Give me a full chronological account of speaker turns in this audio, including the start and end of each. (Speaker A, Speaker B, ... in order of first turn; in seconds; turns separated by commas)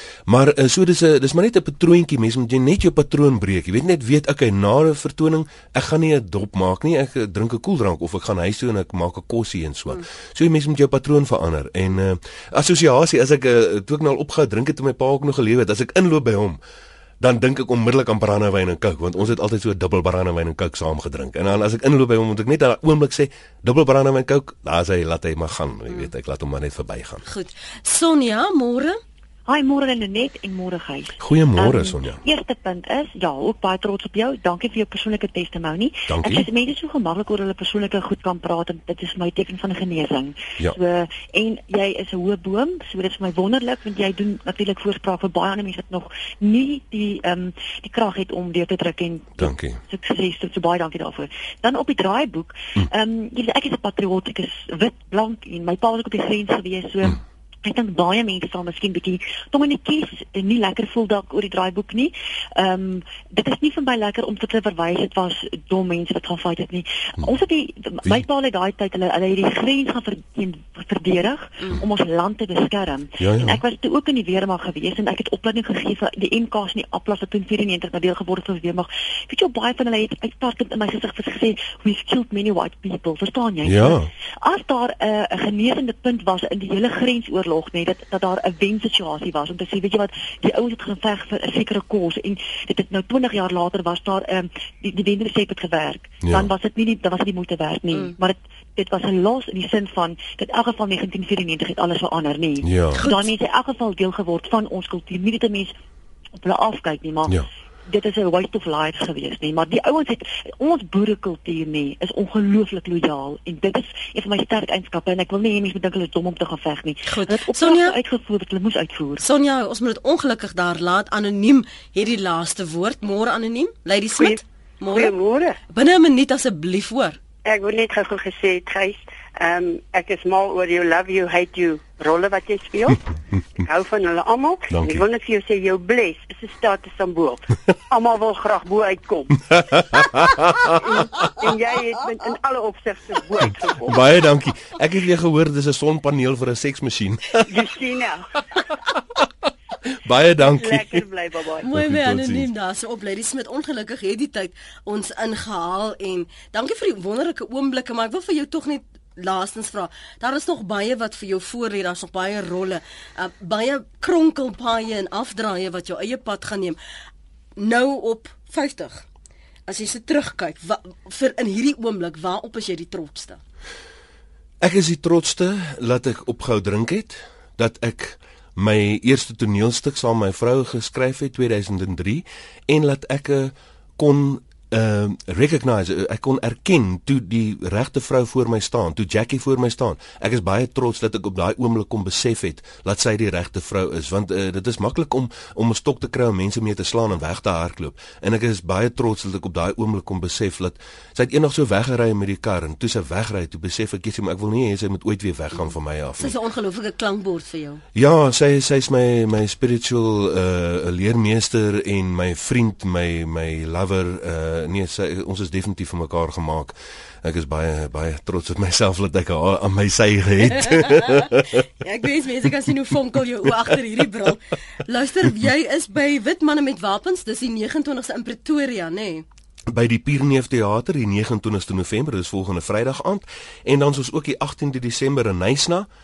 Speaker A: 0.3-16.6, Speaker A: 17.2-27.2, Speaker B: 27.3-29.0, Speaker C: 29.5-105.7, Speaker A: 31.2-32.2, Speaker A: 36.1-36.5, Speaker A: 49.4-49.8, Speaker A: 73.2-73.6, Speaker A: 83.7-84.1, Speaker A: 96.2-96.5, Speaker A: 102.6-103.0, Speaker B: 102.9-103.3, Speaker C: 106.4-119.2, Speaker B: 117.1-118.0, Speaker B: 119.2-125.2, Speaker D: 124.1-125.6, Speaker B: 125.7-127.2, Speaker D: 127.5-133.0, Speaker D: 133.6-144.1, Speaker A: 134.7-135.0, Speaker A: 139.5-140.8, Speaker A: 143.8-147.5, Speaker D: 147.5-148.4, Speaker A: 150.0-151.1, Speaker D: 150.4-151.7, Speaker B: 151.6-166.8, Speaker A: 151.7-152.5, Speaker B: 167.6-169.1, Speaker B: 169.7-173.4, Speaker A: 174.6-206.3, Speaker B: 206.2-207.8, Speaker A: 207.9-221.6, Speaker B: 220.6-229.3, Speaker A: 229.7-235.9